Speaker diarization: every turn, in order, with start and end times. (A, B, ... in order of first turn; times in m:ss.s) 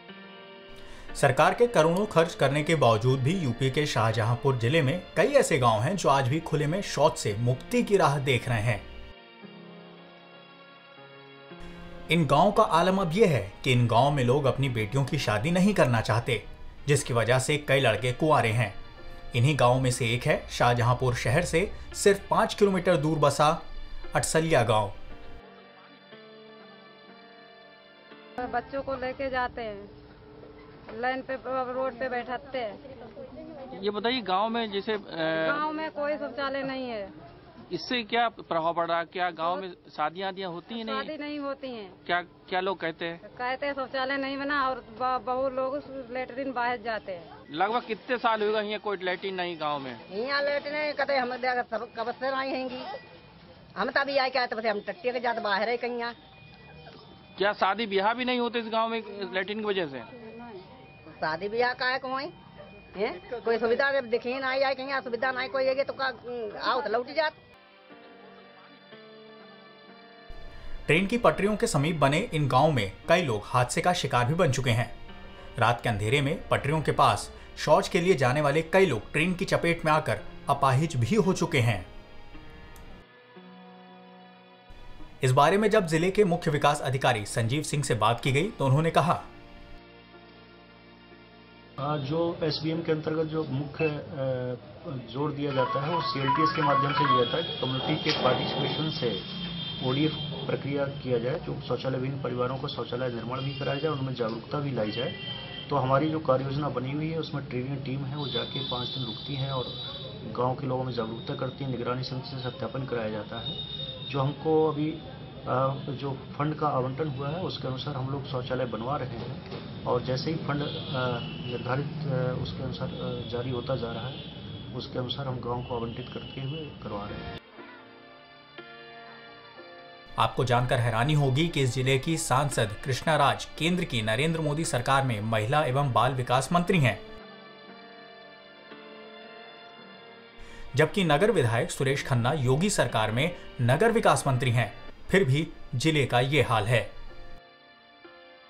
0:01.2-0:08.8 A
0:12.1-0:18.8 A
0:19.3-0:25.0 A
0:28.4-0:29.9 B
0:30.9-0:32.8 B
0:33.7-0:35.6 C
0:35.4-0:37.1 B
0:37.7-0:41.1 C
0:40.7-0:42.0 B
0:42.0-0:43.2 C
0:43.2-0:47.3 B
0:47.5-0:50.0 C
0:50.1-0:52.9 D
0:53.8-0:56.1 D
0:57.4-1:00.1 C
1:01.1-1:02.3 D
1:02.9-1:07.4 D
1:10.9-1:14.9 A
1:15.6-1:21.9 A
1:25.2-1:29.3 A
1:31.8-2:07.3 E
2:10.2-2:17.0 A
2:20.7-2:26.9 A